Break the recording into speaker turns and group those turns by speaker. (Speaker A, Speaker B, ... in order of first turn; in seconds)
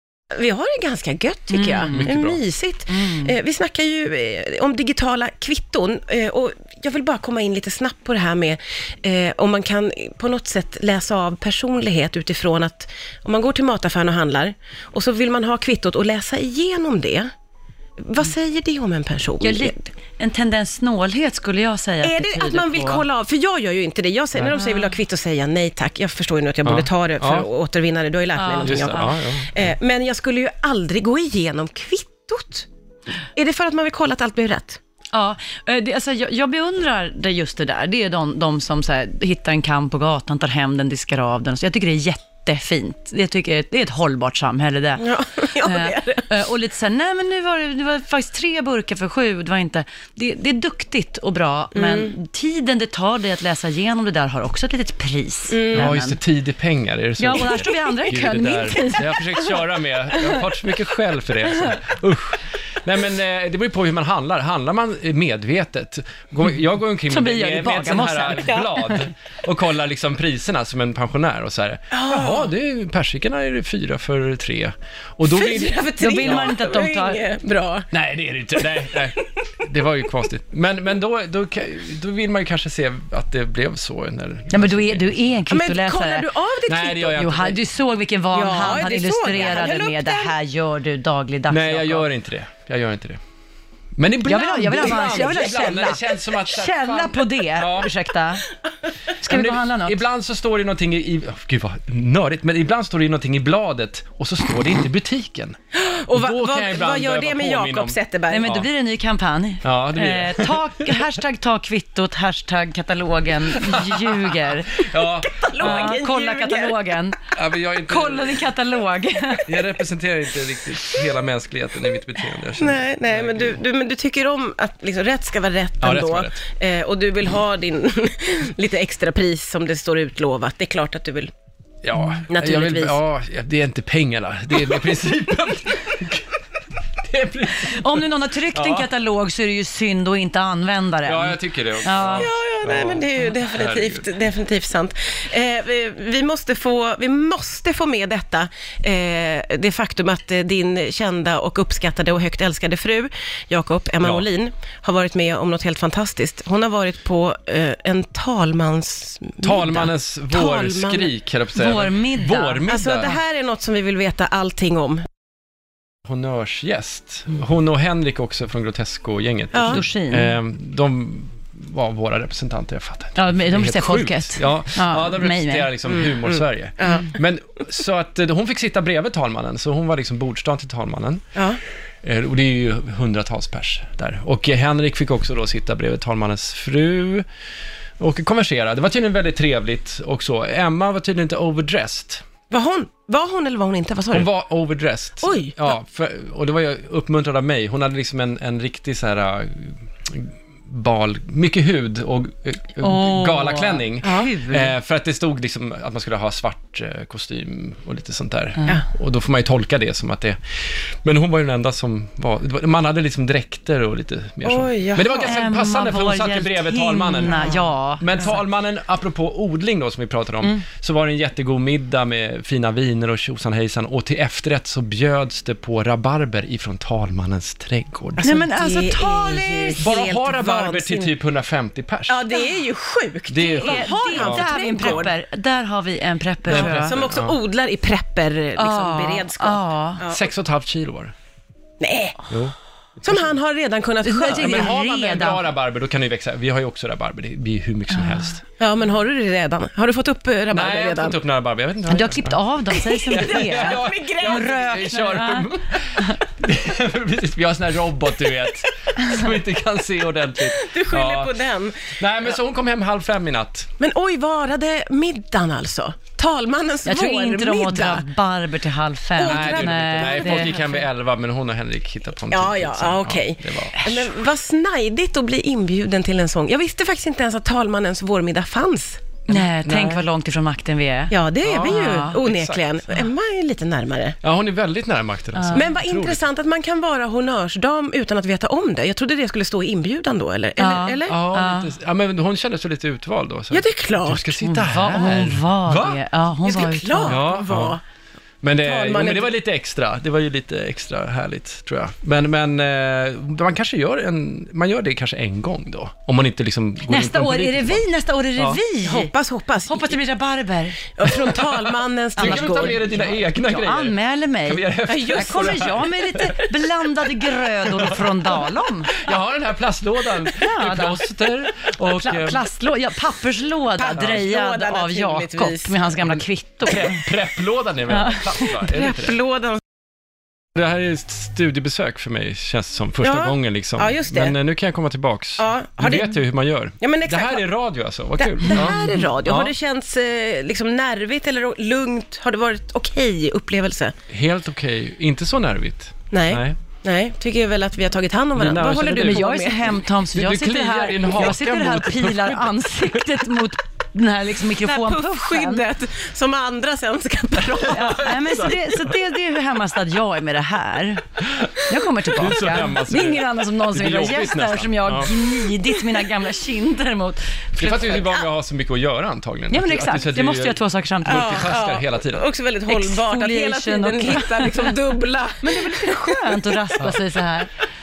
Speaker A: 0.4-17.3, 18.0-19.8, 22.0-32.7, 33.4-34.8, 45.0-46.3, 51.7-52.1, 55.5-56.0, 68.4-68.7, 71.9-72.5, 75.3-77.9, 85.5-87.6, 88.3-90.3, 95.0-96.0, 105.7-108.5, 115.3-116.8, 122.6-131.3, 132.3-133.0, 142.2-161.1, 162.7-165.0, 169.5-169.8, 175.8-177.1, 181.4-181.6, 192.5-194.3, 195.2-195.7, 204.0-204.3, 214.4-215.4, 217.3-217.6, 228.2-231.1, 232.1-235.2, 236.5-240.2, 241.8-242.2, 243.0-244.8, 248.6-251.2, 252.7-254.8, 260.4-261.9, 263.8-268.1, 269.2-270.7, 272.3-279.2, 281.1-284.2, 285.5-291.2, 293.5-294.4, 296.4-297.8, 298.6-299.3, 308.8-310.0, 311.0-313.1, 314.9-315.8, 323.8-325.8, 328.6-329.6, 333.0-334.4, 335.4-336.2, 336.8-337.5, 338.2-343.9, 346.1-349.8, 354.6-358.1, 371.1-376.6
Speaker B: 1.5-2.2, 2.9-3.3, 19.4-23.1, 24.4-24.9, 28.4-29.1, 35.1-56.2, 57.2-59.6, 61.5-61.8, 67.1-69.1, 76.0-77.2, 84.5-86.3, 87.2-92.1, 94.3-98.5, 99.2-100.0, 108.3-114.9, 115.6-117.2, 117.8-119.5, 137.6-142.3, 161.5-162.7, 169.7-170.3, 173.2-175.7, 202.8-204.7, 215.2-218.4, 228.2-229.8, 233.4-237.0, 238.6-240.0, 244.0-245.4, 247.9-248.3, 251.9-256.2, 266.9-270.6, 279.3-282.2, 285.3-285.7, 290.6-291.7, 294.4-297.2, 306.9-309.1, 309.7-311.2, 312.2-319.0, 320.3-321.0, 321.8-327.1, 327.9-328.6, 349.0-355.6, 357.6-361.1, 361.7-368.1, 369.5-371.5, 372.7-374.8, 375.4-377.5
Speaker C: 1.8-2.4, 26.6-27.5, 28.6-29.7, 55.8-76.5, 77.9-85.2, 86.7-87.5, 91.5-93.2, 94.0-97.9, 99.3-105.6, 106.1-108.7, 109.6-111.0, 113.6-116.0, 117.3-118.5, 119.5-123.6, 125.8-126.4, 131.8-136.4, 137.0-138.9, 141.0-144.1, 154.0-154.3, 159.4-163.2, 166.1-181.2, 182.0-187.2, 188.0-192.2, 194.1-228.3, 229.8-232.2, 233.3-235.1, 236.5-237.3, 240.1-241.1, 242.3-243.3, 244.3-248.4, 250.5-252.4, 253.1-261.3, 261.9-263.7, 269.2-274.1, 279.3-280.0, 281.4-282.9, 284.2-286.2, 291.1-296.0, 297.0-297.8, 298.4-307.8, 311.1-311.6, 312.2-316.5, 317.6-322.5, 326.6-329.2, 330.6-339.5, 344.1-346.6, 348.4-353.3, 357.5-359.0, 361.2-361.5, 362.0-365.4, 367.6-372.3